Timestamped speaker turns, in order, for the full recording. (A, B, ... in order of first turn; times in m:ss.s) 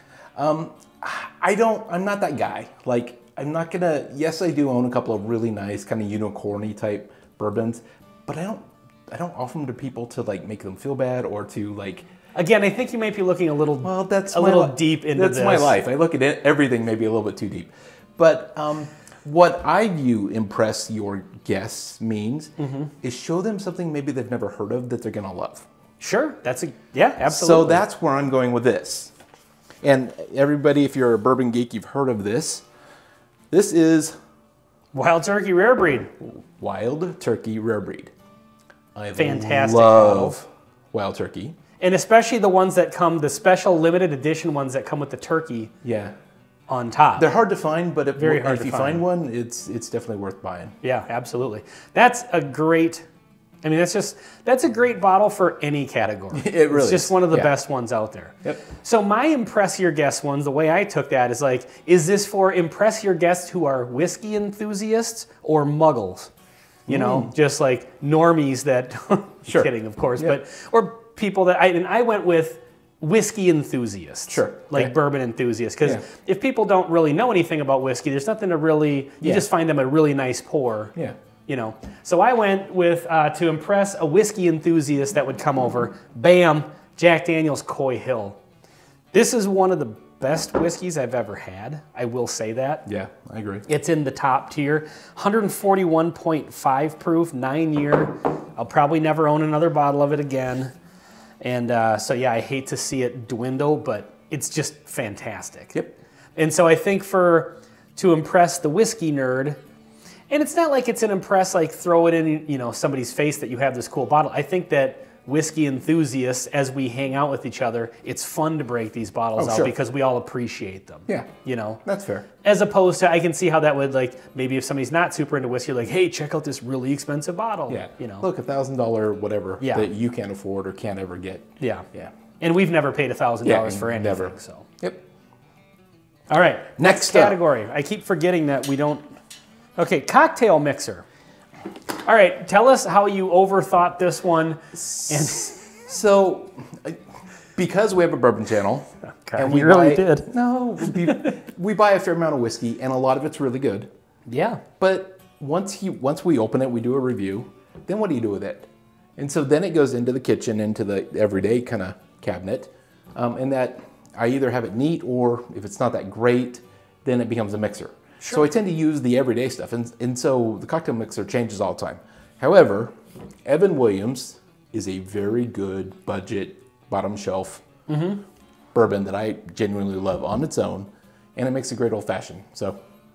0:00.4-0:12.1 A
0:12.4-0:15.8 B
0:13.8-0:25.7 A
0:22.6-0:22.9 B
0:26.0-0:27.8 B
0:27.3-0:29.1 A
0:29.8-0:32.6 A
0:33.5-0:34.2 A
0:34.9-0:36.1 B
0:36.2-0:38.1 A
0:38.9-0:41.6 A
0:39.2-0:40.4 B
0:41.8-0:45.7 B
0:45.8-0:46.1 A
0:46.7-0:47.3 B
0:47.2-0:50.8 A
0:48.2-0:49.0 B
0:50.8-0:53.1 B
0:53.6-1:06.3 B
0:56.3-0:57.5 A
1:06.9-1:20.9 B
1:06.9-1:07.3 A
1:09.5-1:10.4 A
1:14.3-1:14.9 A
1:19.2-1:19.4 A
1:21.5-1:28.4 B
1:29.1-1:32.8 B
1:32.9-1:33.7 A
1:33.7-1:40.7 B
1:41.4-1:45.8 B
1:46.4-1:49.6 B
1:50.3-2:01.8 B
1:59.4-1:59.7 A
2:01.8-2:02.3 A
2:02.4-2:08.2 B
2:07.7-2:12.1 A
2:09.6-2:09.9 B
2:11.6-2:11.9 B
2:12.4-2:14.7 B
2:13.4-2:15.0 A
2:16.3-2:19.2 B
2:16.8-2:17.4 A
2:19.8-2:21.0 B
2:22.0-2:25.6 B
2:24.8-2:27.0 A
2:27.6-2:33.9 A
2:29.2-2:31.4 B
2:34.3-2:34.6 B
2:34.8-2:52.9 A
2:53.4-2:57.6 A
2:57.9-2:58.2 B
2:58.8-3:02.8 A